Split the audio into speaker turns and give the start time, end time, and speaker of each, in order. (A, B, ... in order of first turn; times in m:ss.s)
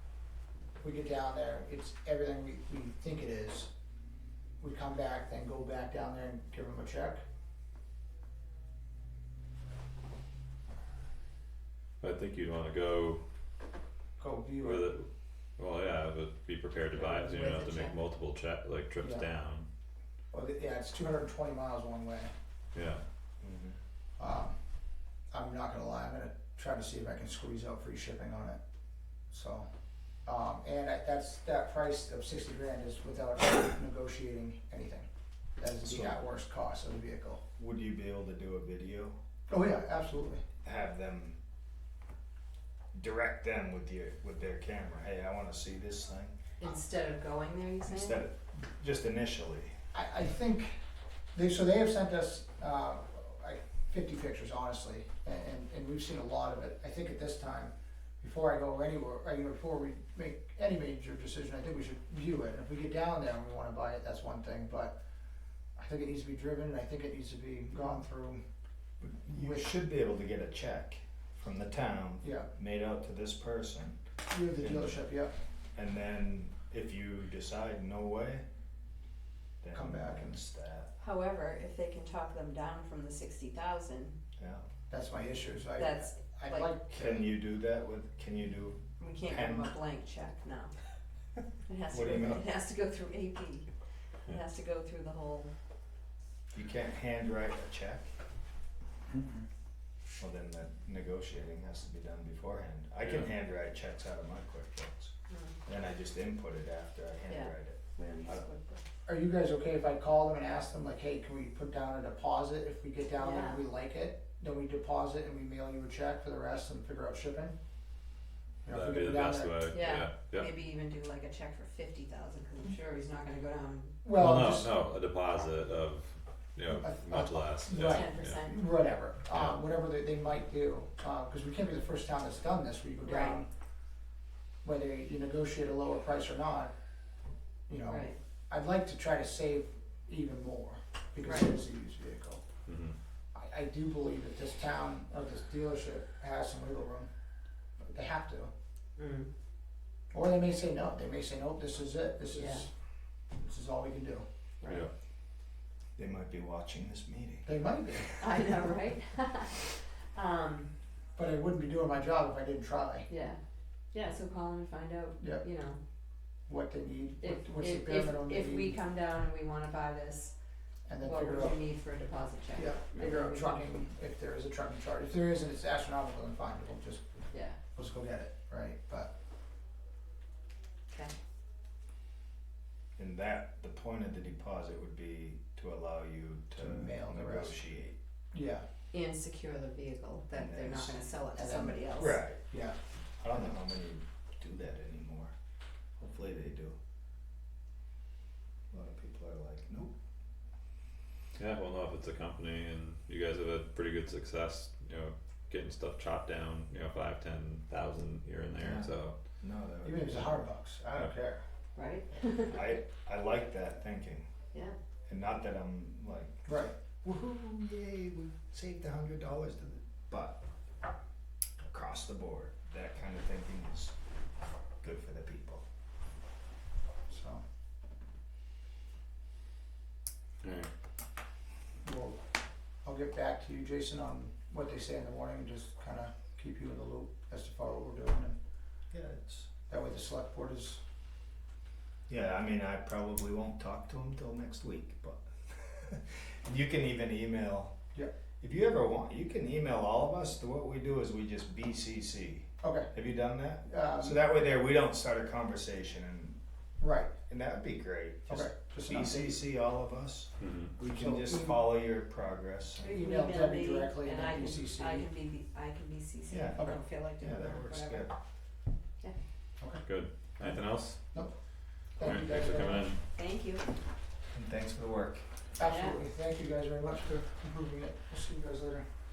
0:00.8-0:03.7 A
0:04.6-0:07.2 A
0:12.0-0:13.2 B
0:14.2-0:14.9 A
0:14.6-0:15.1 B
0:15.6-0:19.6 B
0:17.1-0:17.9 C
0:20.3-0:22.3 A
0:22.7-0:23.0 B
0:23.4-0:23.8 D
0:24.2-0:24.6 A
0:25.3-0:28.6 A
0:29.3-0:29.6 A
0:30.2-0:37.4 A
0:35.8-0:36.2 D
0:37.6-0:39.2 D
0:39.5-0:40.4 A
0:40.6-0:41.4 D
0:42.9-0:46.3 D
0:46.6-0:48.2 C
0:47.8-0:49.7 D
0:49.9-0:50.8 A
0:51.3-1:05.0 A
1:05.8-1:08.4 A
1:09.0-1:14.0 D
1:09.3-1:09.7 A
1:12.2-1:12.5 A
1:14.3-1:15.3 A
1:14.6-1:15.0 D
1:15.7-1:18.4 D
1:19.6-1:20.9 D
1:19.7-1:20.4 A
1:21.0-1:24.2 C
1:24.4-1:24.6 D
1:24.9-1:27.3 A
1:25.8-1:26.7 C
1:26.9-1:29.7 D
1:29.0-1:30.7 C
1:31.7-1:33.7 C
1:31.9-1:32.4 D
1:34.3-1:35.5 C
1:36.5-1:38.1 D
1:40.2-1:45.1 D
1:45.3-1:45.6 C
1:45.6-1:48.4 D
1:47.3-1:48.8 C
1:49.0-1:57.5 A
1:53.2-1:53.6 C
1:58.6-1:59.5 A
1:58.7-2:00.5 B
1:59.7-2:04.0 C
2:04.0-2:04.7 A
2:04.2-2:08.4 B
2:06.8-2:13.5 A
2:07.8-2:08.7 C
2:09.3-2:09.6 B
2:13.0-2:13.4 C
2:14.6-2:16.7 A
2:17.7-2:22.4 A
2:17.9-2:18.2 C
2:21.2-2:21.5 C
2:22.6-2:22.9 B
2:23.3-2:27.1 A
2:27.8-2:28.5 A
2:29.0-2:29.3 C
2:30.1-2:32.7 A
2:32.3-2:32.6 C
2:33.4-2:34.2 A
2:34.6-2:34.9 B
2:36.0-2:38.1 D
2:37.4-2:38.5 A
2:38.2-2:40.7 C
2:41.2-2:43.1 A
2:43.1-2:43.4 C
2:43.9-2:45.8 C
2:46.5-2:48.7 A
2:47.2-2:50.3 C
2:50.9-2:51.6 A
2:51.0-2:53.7 C
2:52.5-2:59.1 A
2:57.3-2:57.6 C
3:03.0-3:07.9 D
3:06.6-3:07.6 A
3:08.3-3:08.6 A
3:08.9-3:12.2 C
3:10.3-3:11.0 D
3:11.4-3:11.8 A
3:11.9-3:12.4 D
3:12.5-3:12.7 A
3:13.2-3:15.3 D
3:16.0-3:16.8 D
3:18.7-3:19.9 D
3:21.4-3:29.1 B
3:28.6-3:30.5 D
3:29.8-3:31.4 A
3:31.8-3:32.6 C
3:32.5-3:34.2 D
3:35.1-3:40.4 D
3:36.4-3:36.7 A
3:41.6-3:43.9 D
3:44.8-3:45.6 D
3:47.1-3:47.4 A
3:50.4-3:50.7 B
3:51.8-3:52.2 A
3:52.8-3:58.4 A
3:58.9-3:59.5 D
3:59.7-4:00.8 A
4:02.1-4:07.7 D
4:08.4-4:16.4 D
4:12.6-4:12.9 A
4:13.7-4:14.2 A
4:16.8-4:17.1 A
4:17.3-4:23.0 D
4:18.3-4:19.4 A
4:20.4-4:20.7 B
4:20.9-4:21.7 A
4:22.8-4:25.1 A
4:22.8-4:28.1 C
4:26.3-4:28.1 D
4:29.8-4:31.0 B
4:32.0-4:32.9 A
4:32.0-4:33.0 B
4:33.1-4:33.6 C
4:34.3-4:35.2 D
4:35.6-4:38.8 A
4:35.6-4:36.0 C